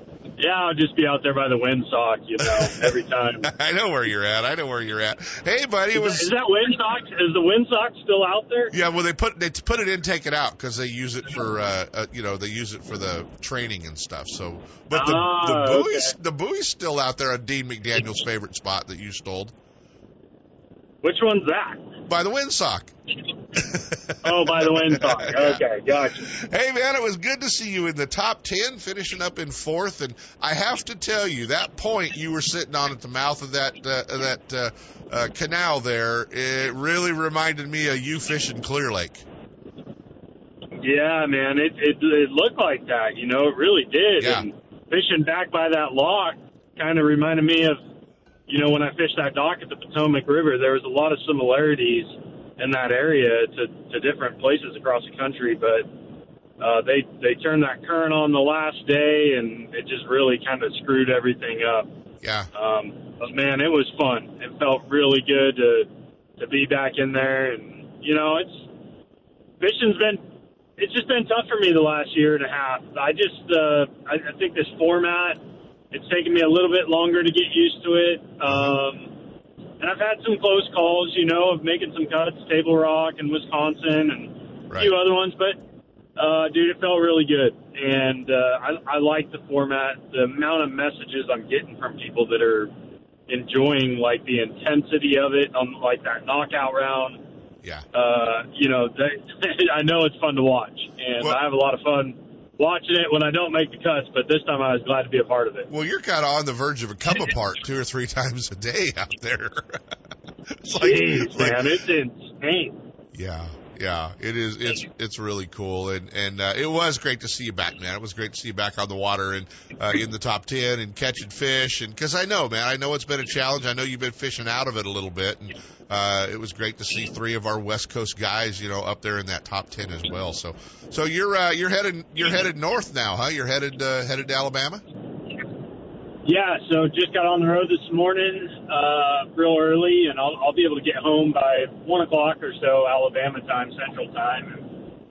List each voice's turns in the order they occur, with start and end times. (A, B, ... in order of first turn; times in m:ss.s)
0:00.4-0:03.5 A
0:02.4-0:02.9 B
0:03.4-0:06.3 B
0:05.9-0:08.7 A
0:08.7-0:19.5 B
0:14.9-0:16.1 A
0:21.0-0:21.9 A
0:22.1-0:22.9 B
0:23.6-0:25.6 B
0:24.2-0:26.3 A
0:26.2-0:39.2 B
0:40.8-0:47.8 A
0:44.2-0:44.5 B
0:48.5-0:55.9 A
0:56.6-1:01.9 A
1:02.2-1:02.5 B
1:02.5-1:08.7 A
1:09.6-1:10.2 A
1:10.8-1:19.2 A
1:18.4-1:18.8 B
1:19.8-1:25.6 A
1:24.7-1:25.0 B
1:26.2-1:32.7 A
1:33.3-1:37.2 A
1:37.9-1:45.7 A
1:45.7-1:49.8 B
1:50.5-1:51.7 B
1:50.8-1:52.8 A
1:53.1-2:14.8 B
2:16.2-2:24.8 A